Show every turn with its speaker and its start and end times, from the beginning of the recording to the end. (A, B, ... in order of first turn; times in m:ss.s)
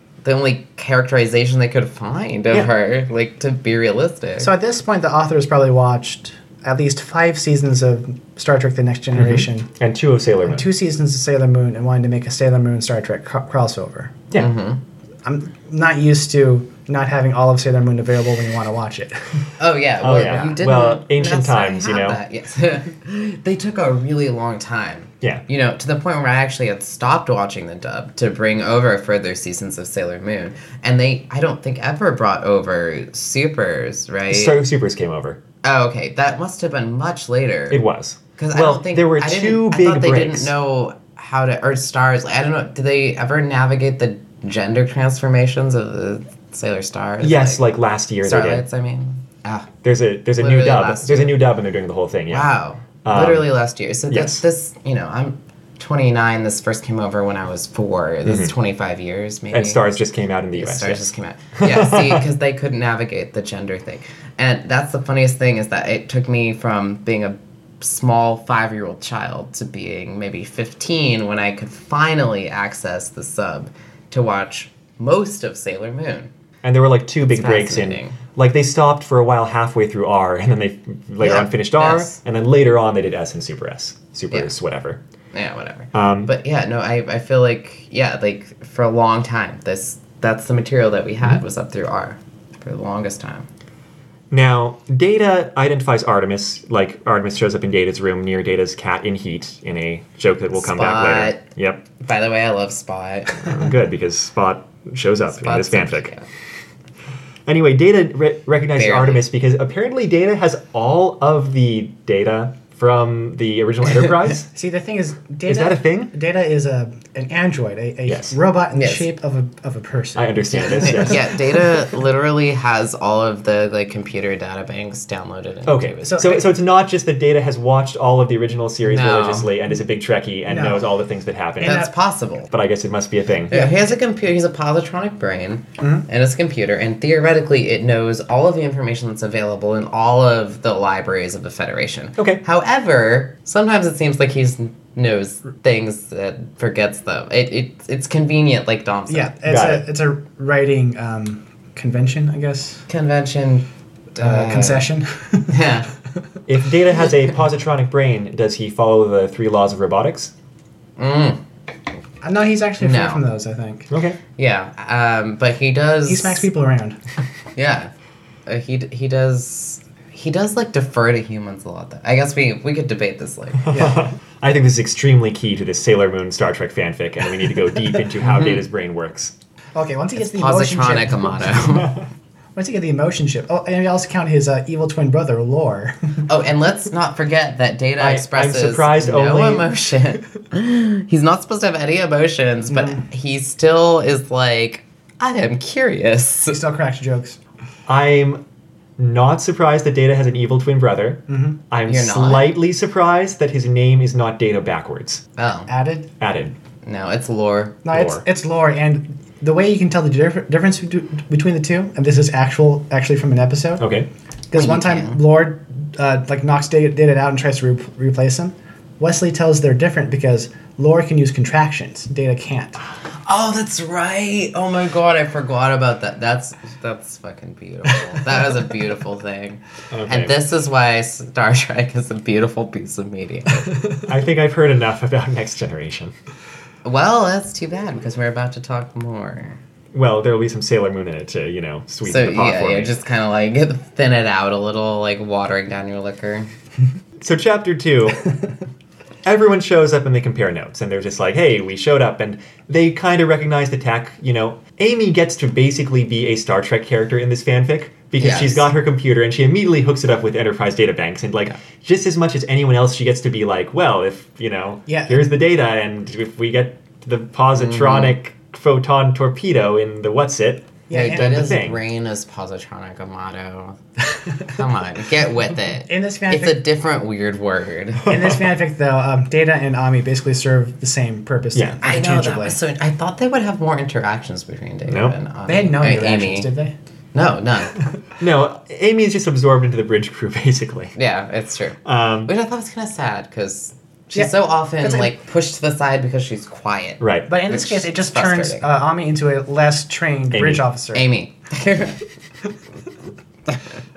0:00.2-0:04.5 A
0:04.4-0:09.7 B
0:09.2-0:10.7 C
0:10.4-0:14.2 B
0:14.3-0:14.8 A
0:15.2-0:19.4 B
0:19.6-0:34.6 A
0:20.0-0:22.2 C
0:34.3-0:35.4 C
0:35.6-0:37.8 A
0:37.7-0:40.5 C
0:38.4-0:47.6 A
0:47.2-0:48.6 C
0:48.2-0:49.7 A
0:49.8-0:52.5 C
0:50.4-0:51.4 A
0:52.3-0:59.8 A
0:53.0-0:53.5 C
0:54.1-0:54.4 C
0:58.2-0:58.5 C
0:59.5-1:02.2 C
1:00.5-1:16.3 A
1:16.6-1:25.0 C
1:17.3-1:18.2 A
1:21.2-1:22.2 A
1:25.3-1:33.5 A
1:25.9-1:26.3 C
1:34.3-1:41.8 C
1:40.6-1:41.4 A
1:42.0-1:43.6 A
1:43.4-1:46.1 C
1:45.3-1:46.2 A
1:47.4-1:54.5 C
1:48.8-1:49.2 A
1:54.5-2:01.2 B
1:55.5-1:56.1 C
1:58.1-1:58.4 C
1:58.7-1:59.1 A
2:00.1-2:01.3 C
2:00.5-2:06.3 A
2:05.6-2:11.8 C
2:06.0-2:06.5 B
2:08.8-2:09.5 A
2:10.4-2:10.9 B
2:11.6-2:11.9 B
2:11.6-2:12.5 A
2:12.5-2:13.7 C
2:13.5-2:29.3 A
2:15.8-2:16.0 B
2:29.1-2:32.8 B
2:29.4-2:29.8 C
2:32.9-2:33.6 A
2:34.2-2:34.9 A
2:34.2-2:35.8 B
2:35.5-2:35.9 A
2:36.5-2:40.3 C
2:41.0-2:41.4 A
2:42.2-2:43.9 B
2:42.8-2:43.2 A
2:43.9-2:44.2 C
2:44.4-2:46.4 A
2:46.0-2:47.0 B
2:47.6-2:47.9 A
2:48.4-2:54.0 A
2:53.7-2:59.3 C
2:53.7-2:54.0 B
2:58.2-2:58.6 A
2:59.7-3:01.3 B
3:00.2-3:02.0 A
3:02.5-3:06.2 B
3:06.3-3:16.6 A
3:08.0-3:09.7 C
3:12.7-3:13.0 B
3:16.5-3:17.4 B
3:17.9-3:18.4 C
3:19.0-3:25.2 C
3:21.3-3:21.6 B
3:21.9-3:22.5 A
3:25.4-3:25.7 A
3:25.7-3:26.1 B
3:26.2-3:26.6 C
3:26.8-3:27.8 A
3:27.8-3:33.8 B
3:27.9-3:28.2 C
3:33.8-3:34.1 C
3:34.5-3:42.8 B
3:34.5-3:35.2 A
3:43.2-3:54.0 A
3:49.9-3:50.3 C
3:54.0-3:56.1 C
3:56.8-3:59.6 A
3:59.9-4:02.9 C
4:02.0-4:06.5 A
4:07.2-4:08.2 C
4:09.2-4:31.8 C
4:18.2-4:18.6 A
4:24.9-4:25.2 B
4:27.6-4:28.1 A
4:30.9-4:31.4 B
4:30.9-4:33.8 A
4:34.4-4:38.1 A
4:35.9-4:36.6 B
4:38.1-4:42.6 B
4:41.5-4:41.8 C
4:41.8-4:46.5 A
4:44.8-4:45.2 C
4:45.4-4:46.7 B
4:47.1-4:47.8 A
4:48.2-4:50.9 C
4:51.0-4:58.6 A
4:51.8-4:52.3 C
4:54.1-4:55.1 B
4:57.0-4:57.3 C
4:57.3-5:01.0 B
5:00.3-5:00.6 C
5:00.9-5:02.0 A
5:03.5-5:03.8 A